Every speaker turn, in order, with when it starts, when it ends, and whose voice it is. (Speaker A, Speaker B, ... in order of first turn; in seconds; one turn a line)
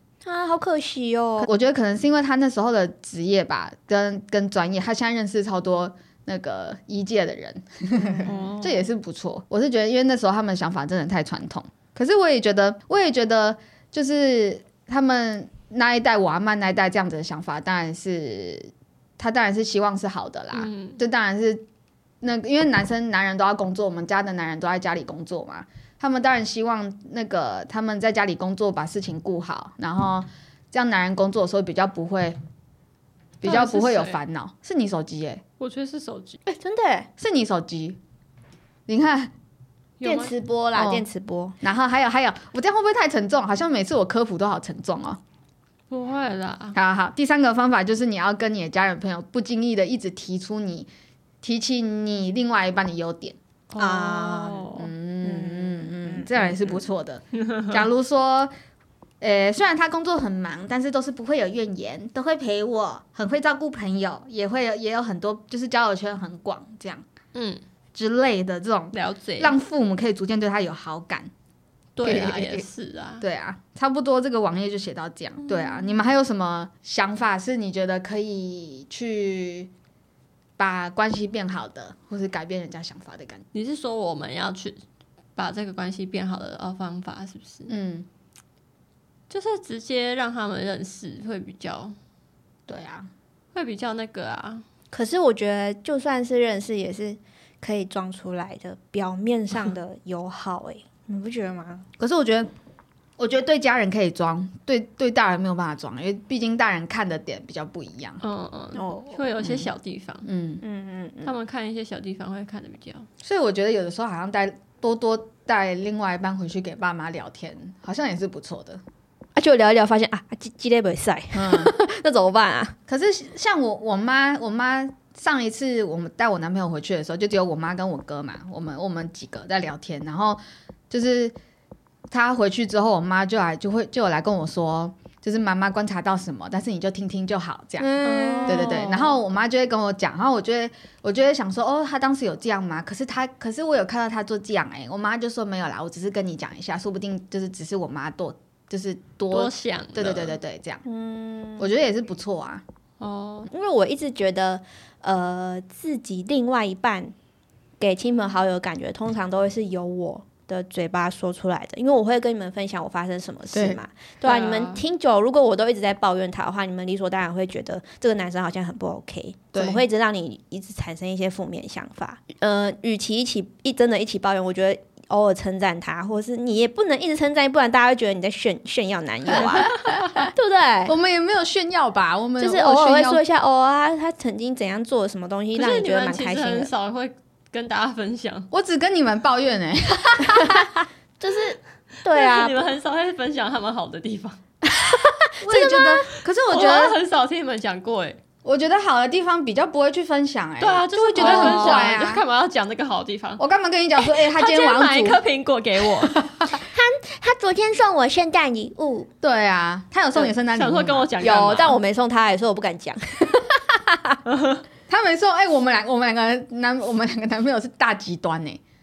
Speaker A: 0.2-1.5
Speaker B: 1.4-21.6
Speaker A: 8.2-8.5
Speaker C: 8.2-8.9
Speaker C: 20.5-21.0
Speaker B: 22.2-32.4
Speaker B: 33.4-35.4
Speaker C: 33.4-34.2
Speaker C: 35.6-36.4
Speaker A: 36.5-37.1
Speaker B: 37.2-38.0
Speaker B: 38.9-39.3
Speaker C: 40.0-40.3
Speaker A: 40.0-41.6
Speaker B: 40.8-41.1
Speaker B: 41.6-45.2
Speaker C: 45.9-46.8
Speaker B: 46.8-50.9
Speaker B: 51.4-53.4
Speaker C: 53.7-54.9
Speaker A: 53.8-56.8
Speaker B: 54.8-58.5
Speaker C: 57.5-57.8
Speaker B: 59.2-67.0
Speaker C: 67.3-67.6
Speaker B: 67.9-71.3
Speaker C: 68.9-69.5
Speaker C: 72.0-73.2
Speaker B: 72.0-72.7
Speaker B: 73.2-79.7
Speaker B: 80.6-83.4
Speaker C: 83.5-84.8
Speaker C: 85.4-87.7
Speaker B: 87.7-88.1
Speaker C: 89.3-92.0
Speaker B: 92.7-93.1
Speaker C: 93.5-94.6
Speaker A: 94.9-101.9
Speaker B: 102.0-102.5
Speaker B: 103.2-108.2
Speaker C: 108.2-110.3
Speaker A: 108.8-109.3
Speaker B: 109.4-109.7
Speaker B: 110.2-110.6
Speaker A: 110.6-111.3
Speaker C: 111.2-113.1
Speaker B: 113.2-118.8
Speaker A: 119.3-122.8
Speaker B: 121.3-121.7
Speaker B: 122.9-131.3
Speaker B: 132.1-137.9
Speaker A: 137.8-139.1
Speaker C: 138.0-139.1
Speaker B: 138.5-150.8
Speaker C: 149.3-150.3
Speaker A: 150.8-151.7
Speaker B: 151.6-152.6
Speaker C: 153.0-153.5
Speaker A: 153.5-157.1
Speaker A: 157.8-180.9
Speaker B: 163.5-163.8
Speaker C: 164.2-164.8
Speaker B: 169.5-169.8
Speaker B: 179.3-180.3
Speaker B: 180.9-183.2
Speaker A: 182.4-186.7
Speaker C: 185.6-188.5
Speaker B: 188.5-190.7
Speaker A: 190.4-192.6
Speaker C: 192.1-194.4
Speaker A: 194.7-196.1
Speaker B: 195.4-197.0
Speaker C: 196.5-198.2
Speaker B: 198.4-202.2
Speaker C: 200.6-203.4
Speaker A: 201.1-201.9
Speaker B: 203.4-205.2
Speaker C: 204.0-206.2
Speaker B: 205.9-206.6
Speaker A: 206.6-209.1
Speaker B: 209.2-211.2
Speaker C: 210.2-211.8
Speaker A: 211.2-214.2
Speaker C: 214.3-214.6
Speaker B: 214.9-218.6